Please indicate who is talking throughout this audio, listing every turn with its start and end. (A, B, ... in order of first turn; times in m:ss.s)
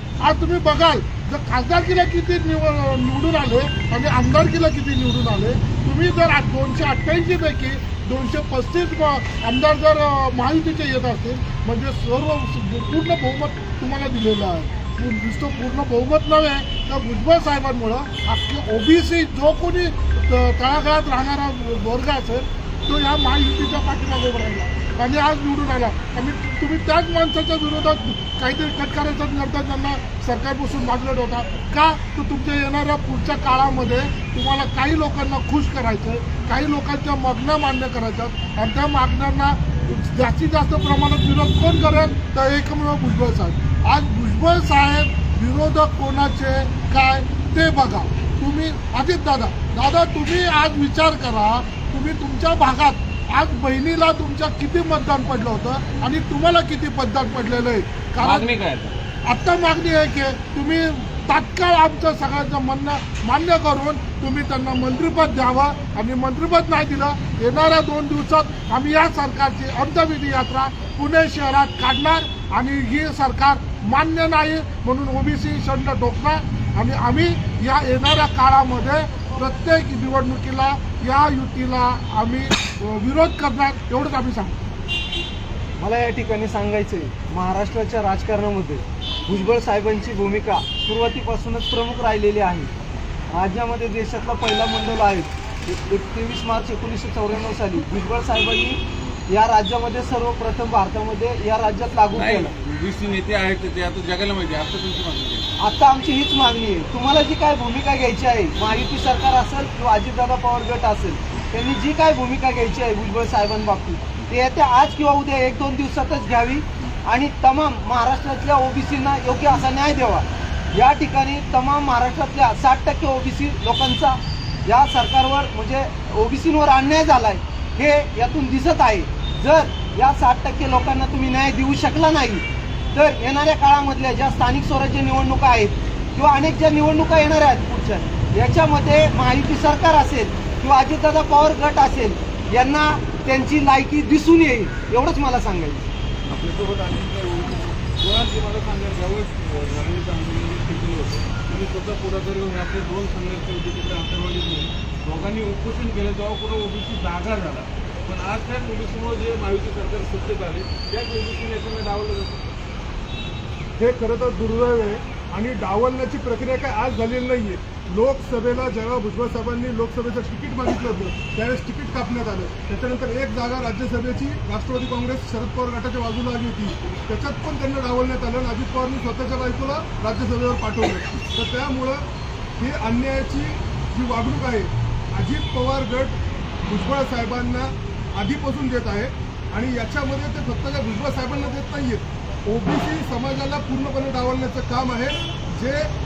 0:00.2-0:58.5 A
0:58.2-0:59.0 B
0:59.3-1:24.6 A
1:25.8-1:32.7 C
1:33.3-1:42.6 C
1:42.1-1:45.5 B
1:45.6-2:25.8 C
2:26.3-2:42.4 B
2:43.8-3:02.0 D
3:02.6-3:15.9 D